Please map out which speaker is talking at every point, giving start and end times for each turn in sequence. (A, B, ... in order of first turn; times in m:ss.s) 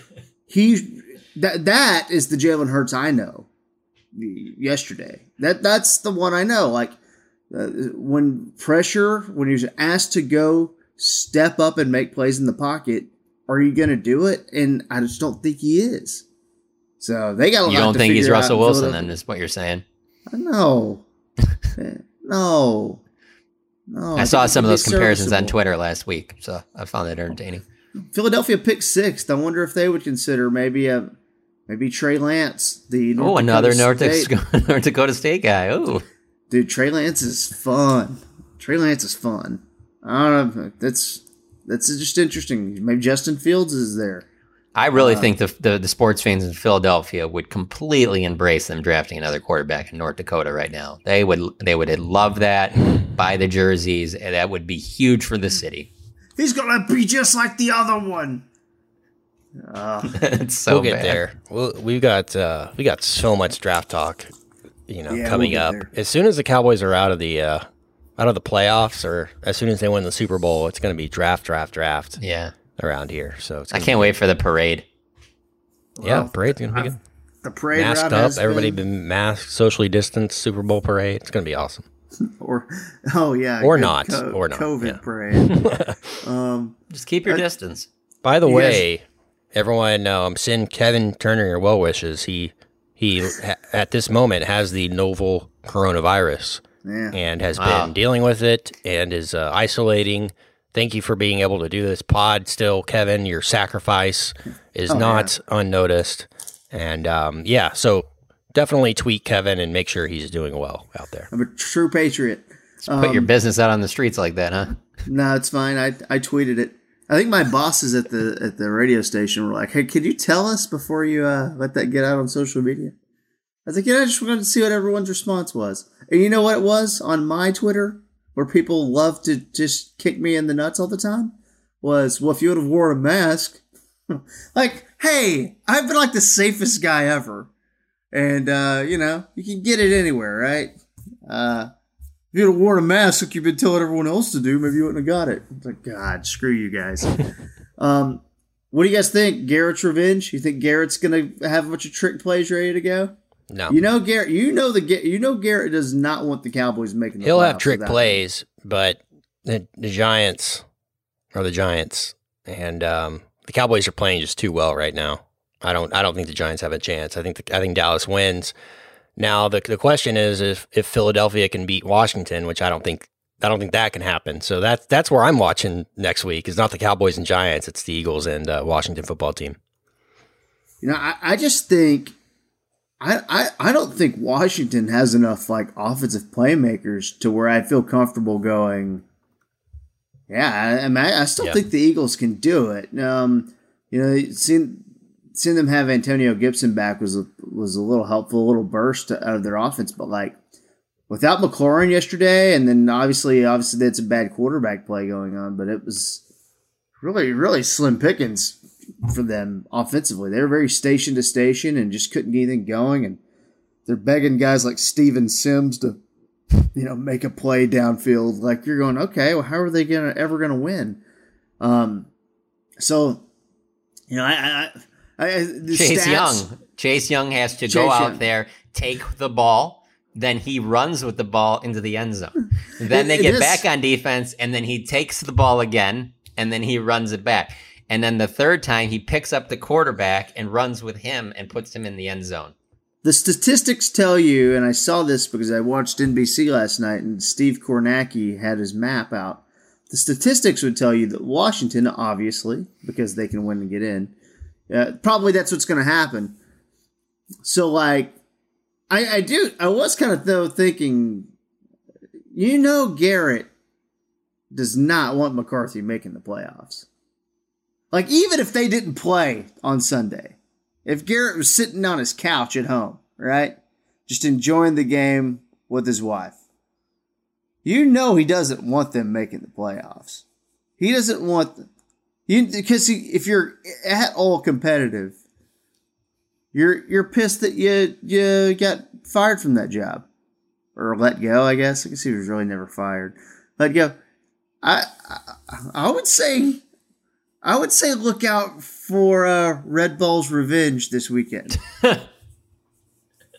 0:00.5-0:03.5 A
0:04.1-0:07.0 A
0:07.5-0:16.2 A
0:17.0-0:19.1 A
0:17.7-0:19.8 B
0:20.3-0:21.0 A
0:21.8-0:23.0 A
0:23.9-0:25.6 A
0:24.2-0:27.6 B
0:28.1-0:31.1 A
0:31.7-0:34.3 A
0:33.2-0:36.1 B
0:36.5-0:44.3 A
0:44.8-0:55.9 B
0:45.0-0:45.3 A
0:56.4-0:58.5 A
0:59.6-1:00.2 A
1:00.1-1:01.2 B
1:00.7-1:04.3 C
1:04.9-1:07.7 C
1:05.1-1:05.9 A
1:08.2-1:12.2 C
1:12.2-1:12.5 B
1:12.8-1:14.2 C
1:13.7-1:14.9 B
1:16.0-1:16.9 A
1:16.0-1:17.0 C
1:17.4-1:18.8 A
1:17.8-1:21.8 C
1:22.2-1:25.7 A
1:23.6-1:26.2 C
1:26.2-1:27.4 A
1:26.9-1:27.9 B
1:28.2-1:29.0 C
1:28.4-1:28.8 A
1:29.5-1:51.3 C
1:36.8-1:37.2 A
1:37.6-1:37.9 B
1:44.9-1:45.3 A
1:51.3-1:53.3 A
1:52.9-1:54.8 B
1:55.1-2:03.0 A
2:03.7-2:17.5 A
2:18.1-2:20.7 A
2:21.3-2:21.7 A
2:22.3-2:27.2 A
2:27.8-2:33.1 A
2:33.5-2:33.8 C
2:33.7-2:38.2 A
2:37.2-2:40.6 C
2:41.3-2:48.5 C
2:49.2-2:59.6 C
3:00.8-3:02.2 A
3:03.0-3:09.0 A
3:10.3-3:20.4 A
3:21.1-3:26.2 A
3:27.0-3:33.2 A
3:33.9-3:36.0 A
3:36.7-3:41.0 A
3:41.6-3:42.1 A
3:42.8-3:43.3 A
3:44.1-3:46.5 A
3:45.7-4:02.5 B
3:47.7-3:48.2 A
3:52.8-3:53.6 A
4:03.0-4:14.1 A
4:14.7-4:16.4 A
4:17.4-4:18.2 A
4:18.9-4:21.3 A
4:22.3-4:23.5 A
4:24.5-4:26.9 A
4:27.9-4:36.4 A
4:37.6-4:40.2 A
4:40.8-4:41.6 A
4:42.3-4:45.2 A
4:46.5-4:50.1 A
4:50.8-4:54.0 A
4:54.6-4:56.6 A
4:57.4-5:01.6 A